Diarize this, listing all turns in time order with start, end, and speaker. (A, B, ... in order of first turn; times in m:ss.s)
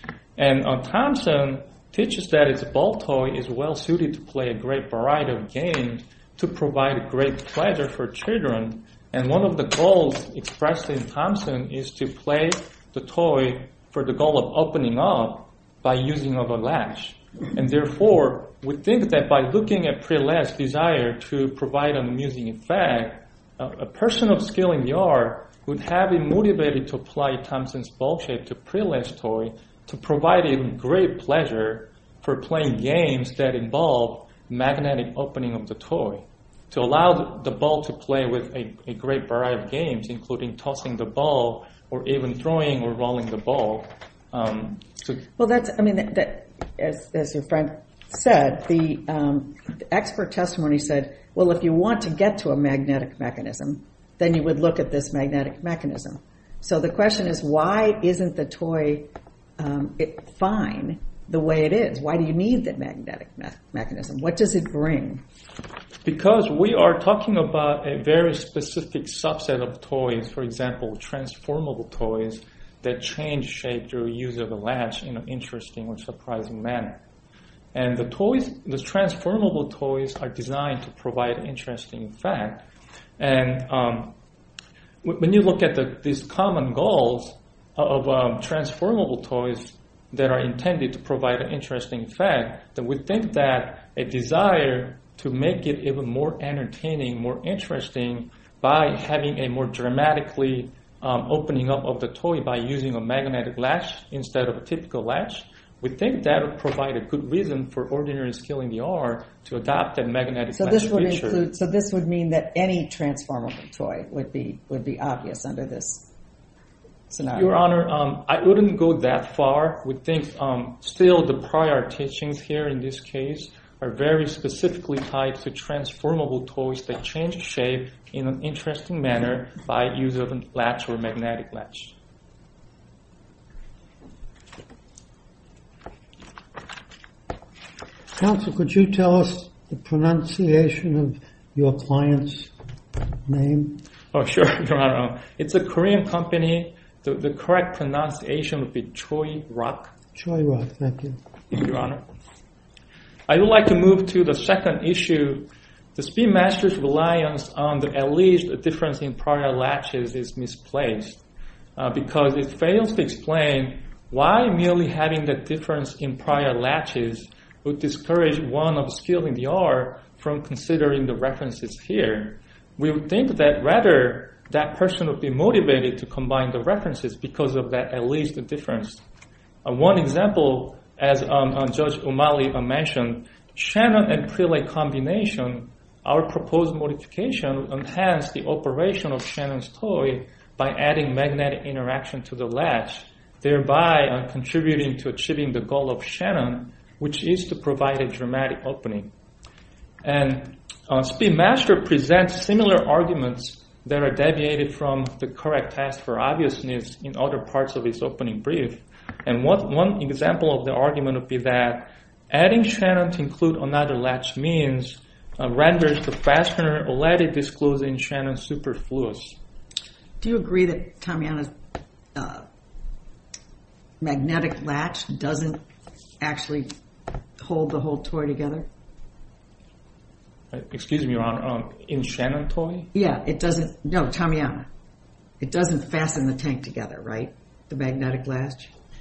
0:00.4-0:45.2 A
0:45.4-1:05.2 B
1:06.0-1:17.0 A
1:17.7-1:22.6 A
1:23.2-1:24.1 A
1:25.0-1:51.4 A
1:50.5-1:56.1 B
1:57.1-1:57.5 B
1:57.3-2:11.9 A
2:18.2-2:22.5 C
2:23.2-2:23.8 C
2:24.1-2:29.9 A
2:30.1-2:31.2 C
2:31.5-2:32.0 A
2:33.3-2:41.2 A
2:41.8-2:59.0 A
2:59.6-3:19.1 A
3:20.0-3:39.4 A
3:40.2-3:41.5 B
3:42.1-3:42.4 B
3:44.0-3:45.6 B
3:46.2-3:46.7 B
3:47.4-3:48.7 B
3:50.5-3:52.9 A
3:52.9-3:54.7 B
3:55.4-3:58.7 B